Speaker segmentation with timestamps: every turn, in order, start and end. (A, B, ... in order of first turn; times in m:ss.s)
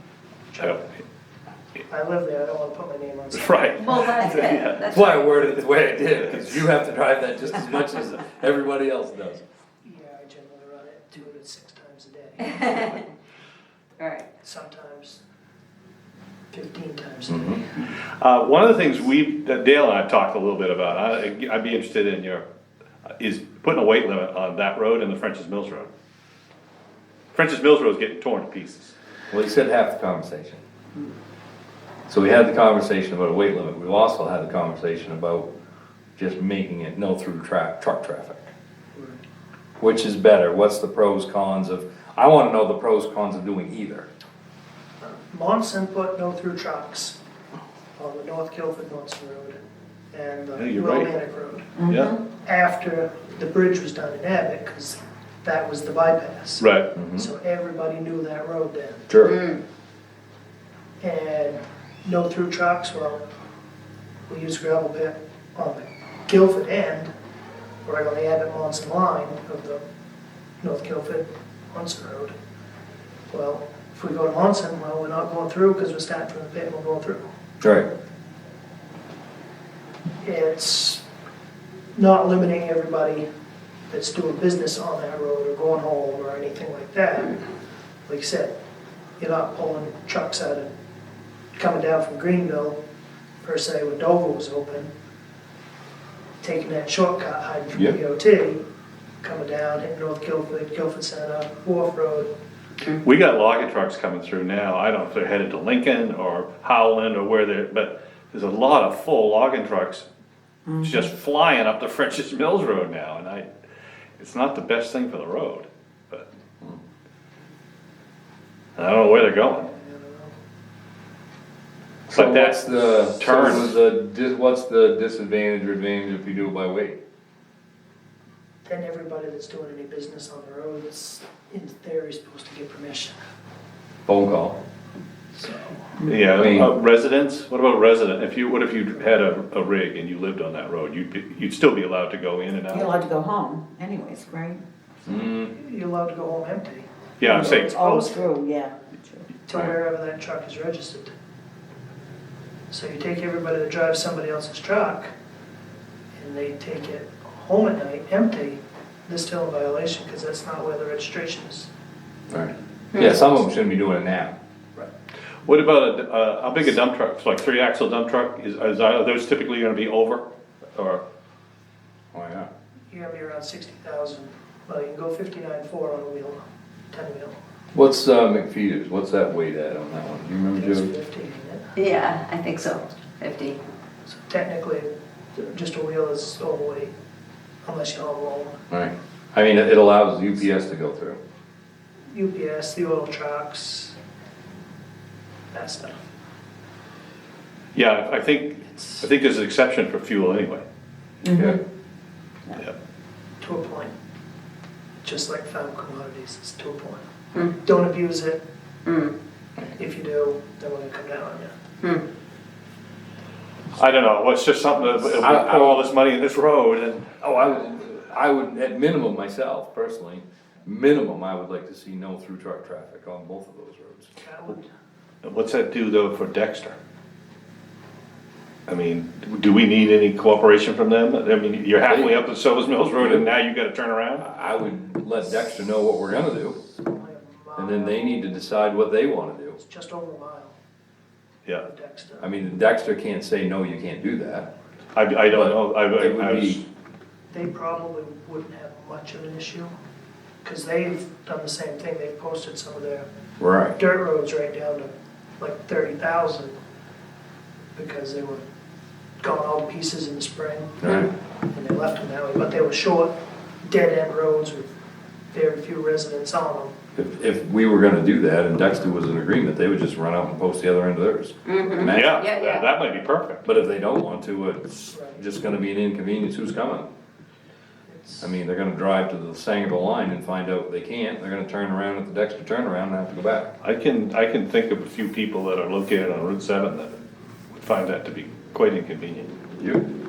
0:00.5-0:00.8 A
0:00.6-0:00.9 B
0:01.9-0:04.0 A
0:03.3-0:04.8 B
0:03.8-0:05.4 C
0:04.9-0:09.4 D
0:09.8-0:13.1 A
0:12.6-0:13.0 C
0:14.0-0:14.3 C
0:14.4-0:15.2 A
0:16.5-0:17.6 A
0:17.3-0:17.6 D
0:18.2-0:22.4 B
0:23.2-0:25.9 B
0:27.3-0:28.9 B
0:29.3-0:30.6 D
0:32.1-0:35.5 D
0:36.2-0:38.5 D
0:38.9-0:39.2 A
0:39.8-0:44.1 D
0:45.0-0:47.2 A
0:48.0-0:49.6 A
0:50.1-0:59.1 A
0:50.6-0:51.1 B
0:51.8-0:52.2 E
0:51.9-0:52.1 B
0:56.6-0:56.9 B
0:57.0-0:57.3 D
0:59.1-0:59.4 D
0:59.2-0:59.6 C
1:01.0-1:03.2 A
1:04.3-1:07.1 A
1:07.8-1:09.8 A
1:10.6-1:12.3 A
1:13.3-1:17.2 A
1:17.6-1:17.9 D
1:20.2-1:21.0 A
1:21.9-1:23.2 A
1:23.9-1:27.4 A
1:28.1-1:28.5 A
1:29.2-1:30.7 A
1:31.5-1:32.8 A
1:33.4-1:34.9 A
1:36.4-1:38.6 A
1:39.2-1:42.3 A
1:43.0-1:50.0 B
1:50.7-1:51.1 E
1:50.8-1:53.5 B
1:54.2-1:56.3 B
1:58.8-1:59.7 B
1:59.4-2:00.3 A
2:02.1-2:07.0 D
2:02.1-2:03.7 B
2:08.6-2:13.2 A
2:14.0-2:14.6 D
2:15.3-2:15.8 A
2:16.0-2:23.0 B
2:16.3-2:16.7 D
2:22.7-2:24.6 E
2:25.0-2:25.5 D
2:25.1-2:28.4 A
2:27.2-2:27.7 B
2:27.2-2:29.3 E
2:29.4-2:31.1 A
2:32.7-2:35.1 A
2:36.2-2:41.7 A
2:42.3-2:44.3 D
2:42.9-2:43.2 C
2:45.4-2:51.0 B
2:52.1-2:52.5 D
2:52.9-2:57.4 A
2:57.7-3:00.9 D
3:00.5-3:01.7 A
3:01.7-3:03.6 C
3:04.1-3:06.9 A
3:07.6-3:08.6 A
3:08.7-3:11.2 D
3:12.1-3:14.0 A
3:15.5-3:16.0 A
3:17.7-3:20.6 B
3:18.7-3:19.0 A
3:21.2-3:21.6 E
3:21.3-3:21.6 D
3:23.4-3:23.9 A
3:25.0-3:28.4 A
3:28.8-3:29.1 C
3:29.8-3:31.5 A
3:33.8-3:37.2 B
3:35.2-3:35.9 D
3:37.2-3:44.1 D
3:44.2-3:44.7 A
3:45.2-3:46.8 B
3:48.7-3:54.3 B
3:51.9-3:52.2 D
3:53.0-3:53.2 D
3:54.2-3:56.6 D
3:56.7-3:58.5 A
3:57.6-3:59.6 D
3:59.6-4:00.5 A
4:01.6-4:02.3 A
4:02.2-4:04.5 D
4:04.9-4:06.6 B
4:05.2-4:06.6 D
4:07.3-4:09.7 A
4:10.4-4:13.1 A
4:13.4-4:13.7 D
4:13.8-4:16.5 A
4:17.8-4:18.4 A
4:19.2-4:20.9 A
4:20.8-4:21.1 D
4:21.5-4:24.7 A
4:25.3-4:26.7 A
4:26.9-4:32.2 D
4:31.4-4:32.7 C
4:31.8-4:33.5 B
4:33.4-4:36.9 D
4:34.9-4:35.2 A
4:37.9-4:38.2 A
4:38.2-4:43.5 D
4:43.6-4:47.0 B
4:47.5-4:49.3 B
4:49.6-4:49.8 D